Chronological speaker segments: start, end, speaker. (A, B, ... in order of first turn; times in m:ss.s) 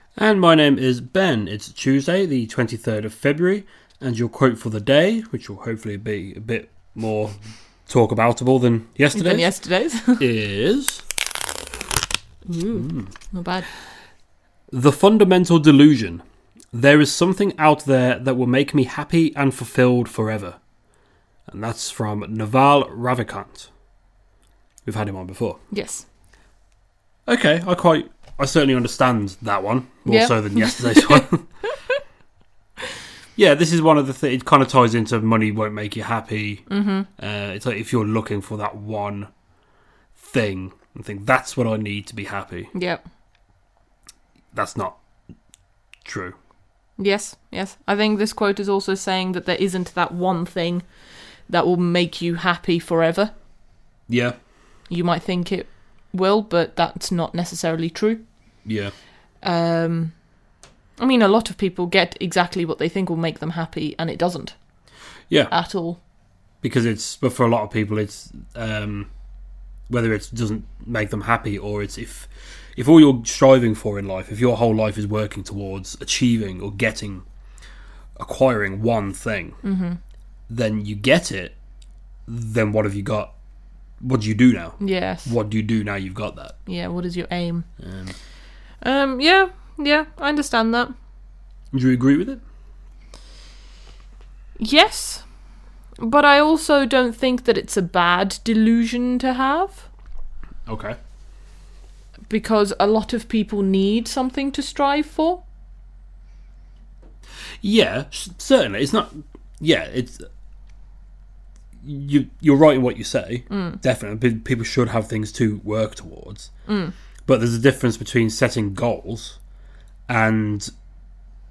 0:00.2-0:07.3 A
0:07.9-0:09.5 A
0:09.1-0:10.2 B
0:10.2-0:11.0 A
0:12.4-0:13.7 B
0:12.7-0:13.1 A
0:14.7-0:20.6 A
0:21.5-0:23.7 A
0:24.8-0:25.6 A
0:25.7-0:26.0 B
0:27.3-0:31.4 A
0:30.0-0:31.2 B
0:33.4-0:36.6 A
0:36.7-0:37.1 B
0:37.2-0:39.3 A
0:40.2-0:42.7 A
0:42.7-0:43.0 B
0:44.5-0:45.0 A
0:46.0-0:46.3 A
0:47.0-0:50.9 B
0:51.5-0:53.3 B
0:54.1-0:54.4 A
0:54.9-0:58.2 B
0:58.6-0:58.9 A
0:59.4-1:00.2 B
1:01.0-1:04.5 B
1:05.5-1:06.0 B
1:06.6-1:09.1 A
1:09.9-1:17.2 A
1:18.2-1:19.6 A
1:19.6-1:20.0 B
1:20.5-1:21.6 A
1:22.3-1:23.3 A
1:24.0-1:26.5 A
1:24.8-1:25.3 B
1:26.6-1:27.7 B
1:27.8-1:28.1 A
1:28.8-1:30.9 B
1:31.7-1:32.4 A
1:34.6-1:35.3 B
1:36.0-1:39.9 B
1:40.7-1:41.0 A
1:42.3-1:45.4 B
1:47.6-1:50.2 A
1:51.8-1:56.5 A
1:53.5-1:53.8 B
1:56.7-1:56.9 B
1:57.2-1:59.4 A
2:00.1-2:00.7 A